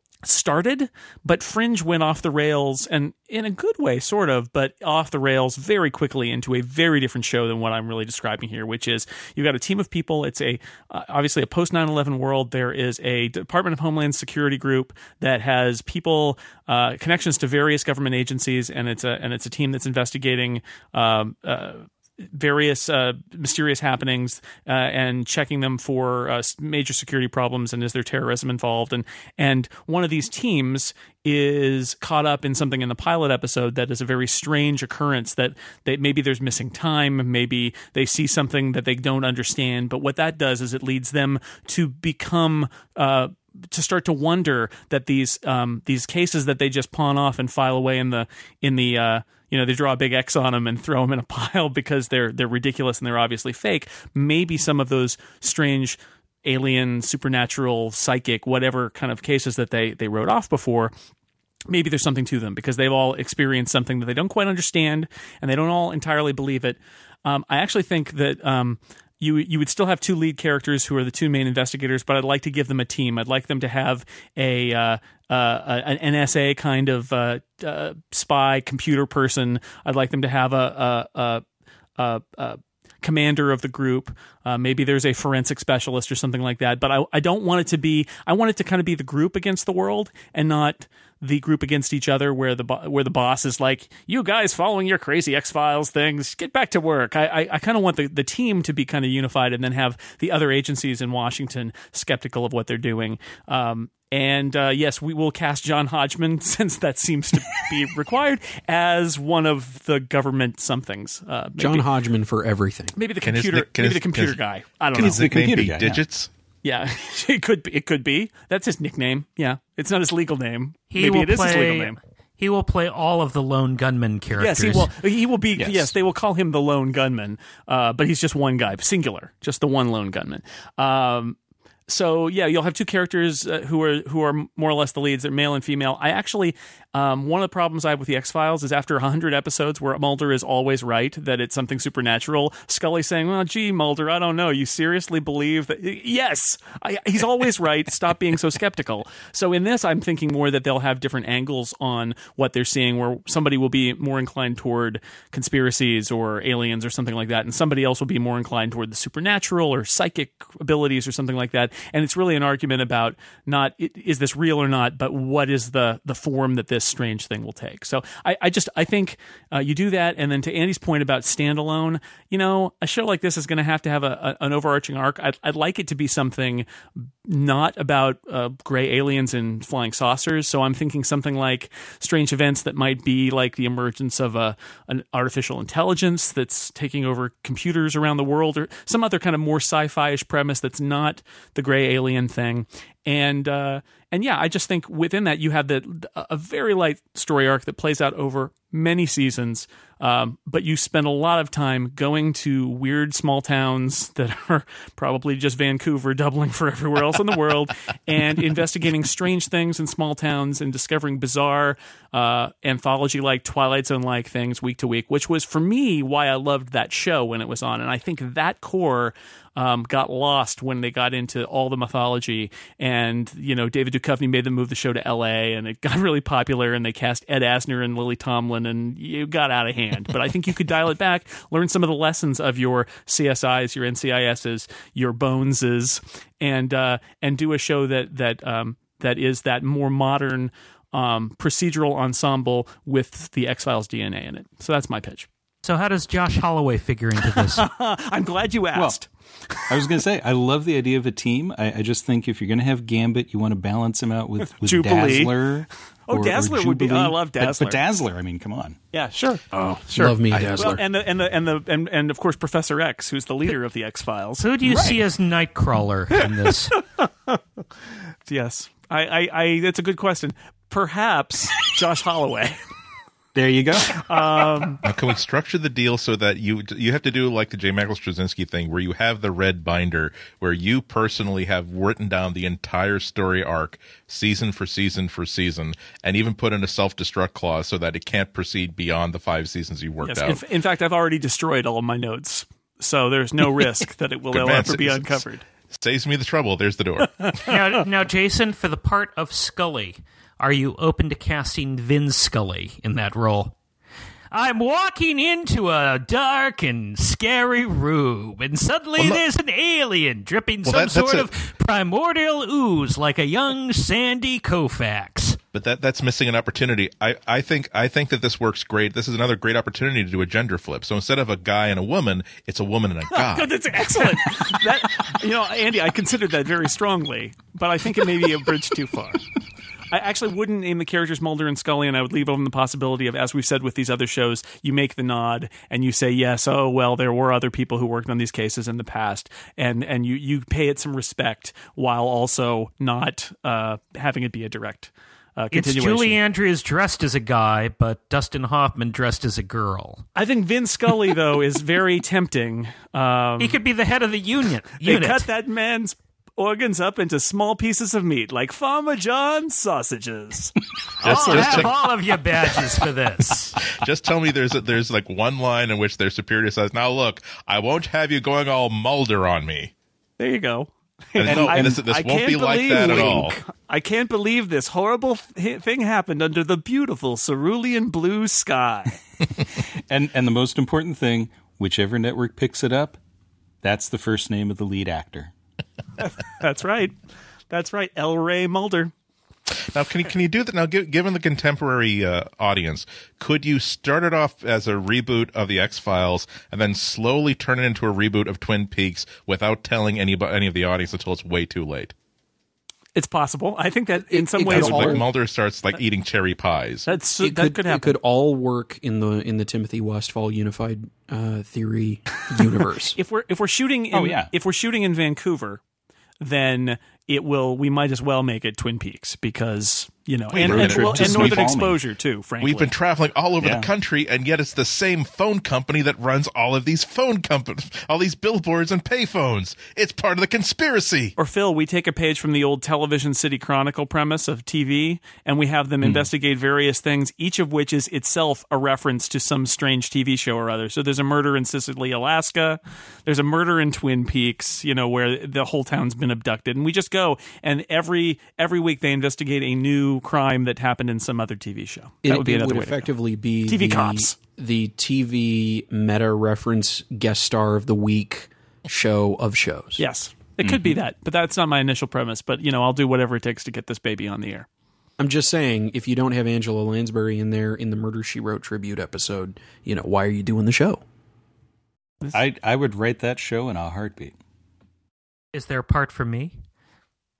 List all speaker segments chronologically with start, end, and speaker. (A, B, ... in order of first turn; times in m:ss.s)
0:00.2-1:00.9 A
1:01.7-1:21.4 A
1:22.0-1:51.9 A
1:51.6-1:52.9 B
1:53.0-1:55.3 A
1:53.2-1:54.4 C
1:54.9-1:56.0 D
1:54.9-1:56.3 C
1:56.6-2:02.0 A
2:00.9-2:04.9 E
2:04.4-2:11.4 A
2:05.6-2:05.9 C
2:11.9-4:05.3 A
4:05.6-4:07.6 E
4:07.2-4:09.9 A
4:08.7-4:09.0 D
4:09.7-4:18.8 D
4:14.5-4:15.4 A
4:16.1-4:17.8 A
4:18.9-4:24.4 A
4:19.5-4:20.8 B
4:20.3-4:20.7 C
4:24.4-4:26.7 E
4:24.6-4:25.0 D
4:26.7-4:27.4 A
4:28.2-4:32.6 A
4:33.3-4:34.1 D
4:33.9-4:34.8 A
4:34.8-4:50.4 C
4:50.0-4:55.4 A
4:54.3-4:57.3 C
4:57.2-4:57.6 A
4:57.5-5:03.5 E
5:04.3-5:15.4 E
5:09.0-5:09.2 C
5:10.6-5:11.3 C
5:15.5-5:23.5 C
5:23.1-5:29.2 A
5:29.9-5:46.2 A
5:45.5-5:50.0 E
5:50.1-5:53.6 A
5:53.4-5:55.3 E
5:54.8-6:01.7 A
6:01.0-6:01.7 C
6:01.0-6:03.6 E
6:03.6-6:09.7 C
6:10.2-6:19.0 A
6:11.2-6:13.4 C
6:19.9-6:23.0 D
6:23.6-6:25.3 D
6:26.0-6:26.9 A
6:27.5-6:28.9 A
6:29.7-6:41.9 C
6:42.9-6:45.0 A
6:44.1-6:45.0 B
6:44.5-6:46.9 C
6:44.5-6:45.0 D
6:46.8-6:48.0 A
6:47.2-6:53.0 B
6:53.0-6:55.6 A
6:53.9-6:54.3 D
6:56.2-7:02.7 A
7:00.3-7:01.5 C
7:00.3-7:01.8 D
7:02.4-7:11.1 C
7:03.4-7:03.7 D
7:11.2-7:32.9 A
7:15.8-7:16.1 D
7:32.0-7:39.8 B
7:33.4-7:34.1 A
7:39.8-7:44.5 A
7:40.4-7:40.8 D
7:45.0-7:50.8 B
7:52.1-7:54.2 D
7:55.3-7:56.4 E